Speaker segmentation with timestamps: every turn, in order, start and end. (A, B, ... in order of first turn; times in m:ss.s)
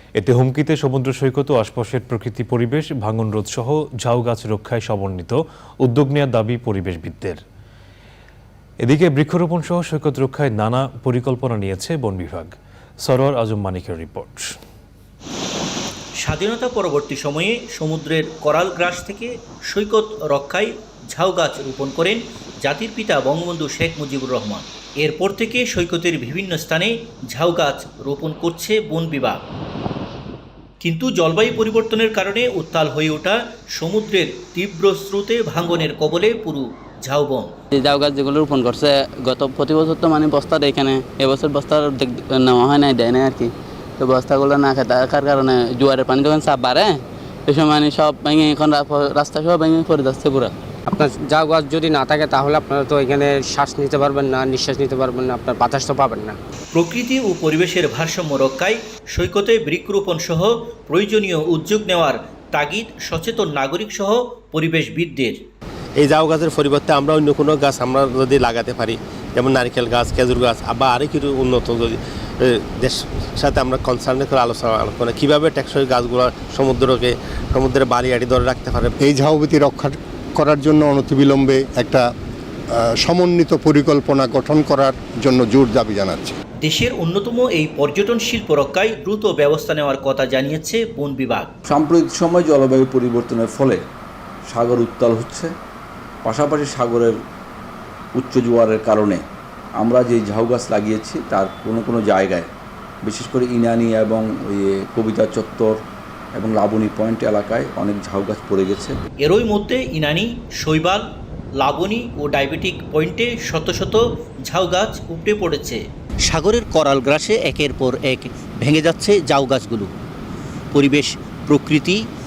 0:00.2-0:07.4 A
0:08.8-0:14.4 A
0:16.2-0:29.4 B
0:30.8-0:37.5 B
0:37.7-0:50.5 C
0:50.9-0:56.4 D
0:56.7-1:05.4 B
1:06.0-1:18.9 E
1:19.0-1:22.1 F
1:22.8-1:26.4 F
1:26.6-1:31.5 B
1:31.6-1:33.8 G
1:34.5-1:35.5 G
1:36.2-1:37.1 G
1:38.2-1:39.2 G
1:39.8-1:42.5 G
1:43.0-1:45.8 G
1:46.4-1:49.0 G
1:49.2-1:51.0 B
1:51.6-1:59.9 B
2:00.7-2:02.0 B